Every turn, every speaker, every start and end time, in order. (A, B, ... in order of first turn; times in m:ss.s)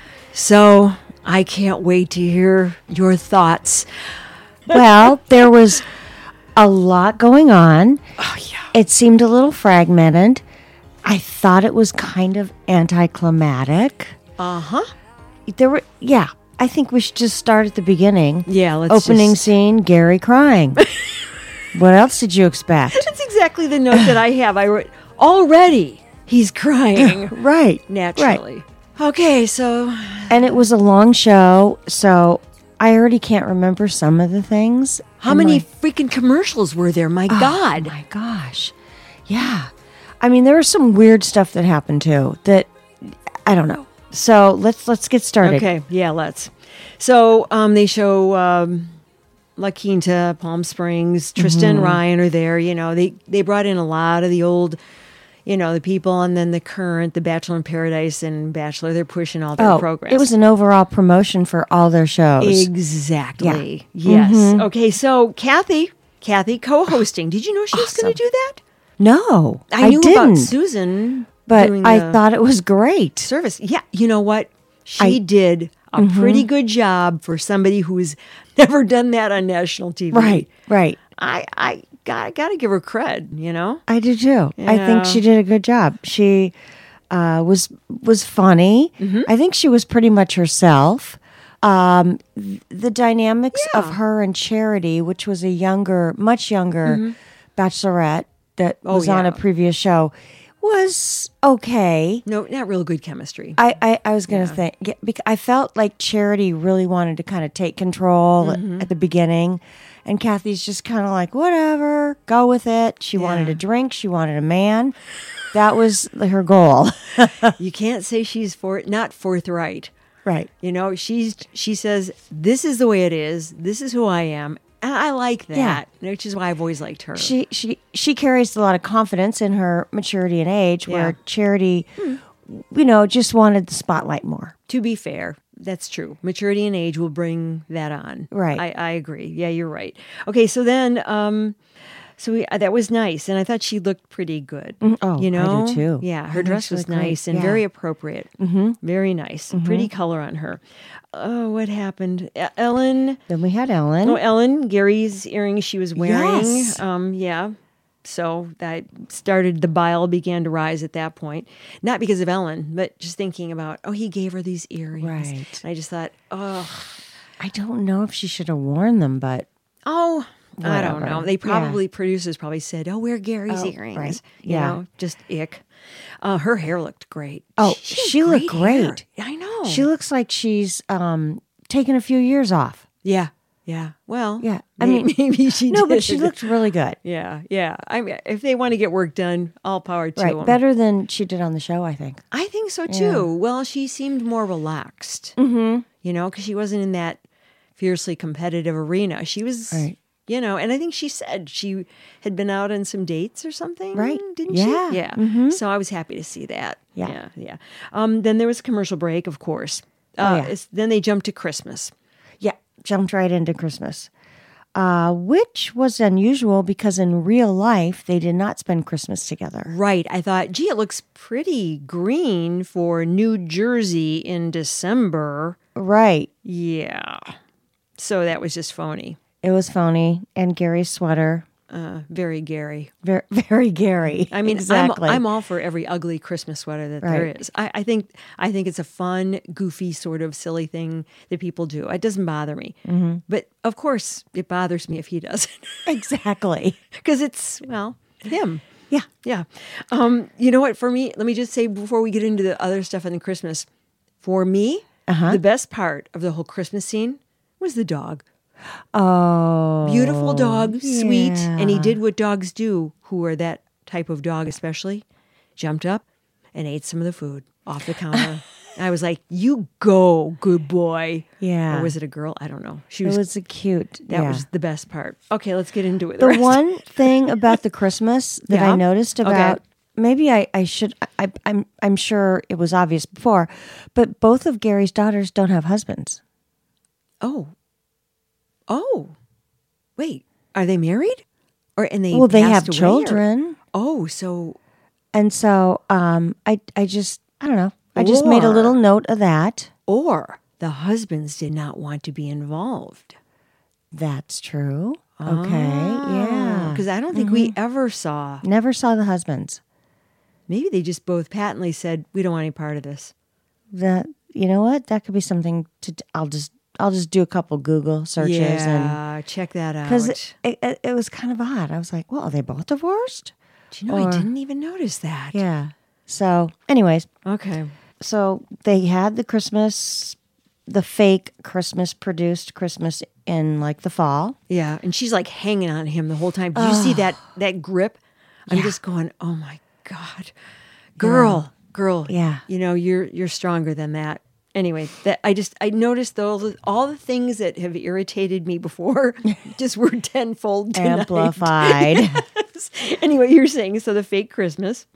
0:00.3-0:03.9 A
0:04.7-0:05.9 B
0:06.5-0:08.0 B
0:08.2-0:08.7 A
0:08.7-0:10.4 B
0:11.0-0:14.2 B
0:14.4-0:14.9 A
0:15.4-0:20.8 B
0:18.4-0:19.4 A
0:20.8-0:21.1 A
0:21.7-0:23.1 B
0:22.9-0:27.4 A
0:23.9-0:24.2 B
0:27.0-0:28.4 B
0:27.9-0:30.6 A
0:30.3-0:35.6 B
0:35.2-0:37.9 A
0:37.3-0:38.7 B
0:39.3-0:45.6 B
0:45.4-0:49.0 A
0:49.6-0:54.8 A
0:51.4-0:52.0 B
0:55.4-1:00.3 A
0:59.6-1:02.7 B
1:02.4-1:08.6 A
1:03.4-1:04.7 B
1:07.7-1:08.2 B
1:09.0-1:10.5 B
1:09.7-1:12.2 A
1:11.5-1:13.3 B
1:13.2-1:20.5 A
1:16.0-1:16.5 B
1:20.1-1:21.0 B
1:21.1-1:23.8 A
1:23.9-1:26.5 B
1:24.6-1:25.2 A
1:27.1-1:37.0 B
1:29.0-1:29.3 A
1:33.5-1:34.0 A
1:36.8-1:37.1 A
1:37.6-1:42.2 B
1:38.8-1:39.4 A
1:42.2-1:43.6 A
1:43.6-1:55.0 B
1:44.3-1:44.6 A
1:48.4-1:48.9 A
1:53.1-1:53.6 A
1:55.5-1:57.5 B
1:57.6-1:59.9 A
2:00.2-2:00.5 B
2:00.6-2:07.3 A
2:05.5-2:05.8 B
2:07.2-2:11.9 B
2:10.8-2:11.2 A
2:12.4-2:14.5 B
2:14.7-2:21.6 A
2:18.3-2:18.6 B
2:22.2-2:30.6 A
2:24.8-2:27.6 B
2:28.4-2:28.8 B
2:29.5-2:29.9 B
2:31.1-2:33.2 A
2:33.3-2:34.2 B
2:34.0-2:47.0 A
2:36.0-2:36.8 B
2:45.0-2:45.6 B
2:47.4-2:49.5 B
2:49.8-2:55.6 A
2:50.6-2:51.8 B
2:53.5-2:54.8 B
2:56.2-2:59.8 A
2:57.6-2:59.0 B
2:59.6-3:02.8 B
3:03.0-3:06.5 A
3:04.4-3:05.1 B
3:05.7-3:07.0 B
3:07.0-3:10.6 A
3:10.2-3:12.2 B
3:12.3-3:15.4 A
3:12.9-3:13.3 B
3:15.4-3:15.8 B
3:16.0-3:17.2 A
3:17.8-3:31.9 A
3:19.7-3:20.0 B
3:23.9-3:25.6 B
3:30.2-3:30.5 B
3:32.4-3:34.1 B
3:34.7-3:39.7 B
3:39.6-3:45.6 A
3:45.7-3:46.3 B
3:46.4-3:47.4 A
3:48.0-3:49.2 A
3:49.4-3:51.4 B
3:51.7-3:52.9 A
3:53.0-3:55.2 B
3:54.3-4:05.9 A
3:57.0-3:57.3 B
4:02.8-4:03.2 B
4:05.8-4:06.8 B
4:06.9-4:08.7 A
4:09.2-4:13.7 A
4:14.2-4:18.2 A
4:15.1-4:15.4 B
4:18.9-4:22.0 B
4:19.8-4:25.0 A
4:25.6-4:26.0 A
4:26.5-4:33.2 A
4:31.4-4:31.9 B
4:33.0-4:34.4 B
4:34.1-4:37.3 A
4:36.2-4:46.2 B
4:38.5-4:39.6 A
4:47.2-4:47.5 A
4:48.7-4:49.2 A
4:50.0-4:51.2 A
4:51.8-4:53.2 A
4:52.1-4:53.6 B
4:53.7-4:54.6 A
4:55.1-4:59.7 B
4:57.9-4:58.8 A
4:59.9-5:03.2 A
5:03.9-5:07.5 B
5:05.2-5:08.4 A
5:08.4-5:09.6 B
5:10.5-5:13.1 A
5:13.7-5:19.0 B
5:18.2-5:20.3 A
5:19.8-5:23.3 B
5:23.7-5:25.4 A
5:23.9-5:24.3 B
5:25.3-5:27.1 B
5:27.2-5:27.7 A
5:28.0-5:34.4 B
5:34.5-5:40.3 A
5:36.5-5:37.2 B
5:38.5-5:38.8 B
5:41.0-5:54.9 A
5:41.0-5:41.4 B
5:42.1-5:42.4 B
5:50.7-5:52.2 B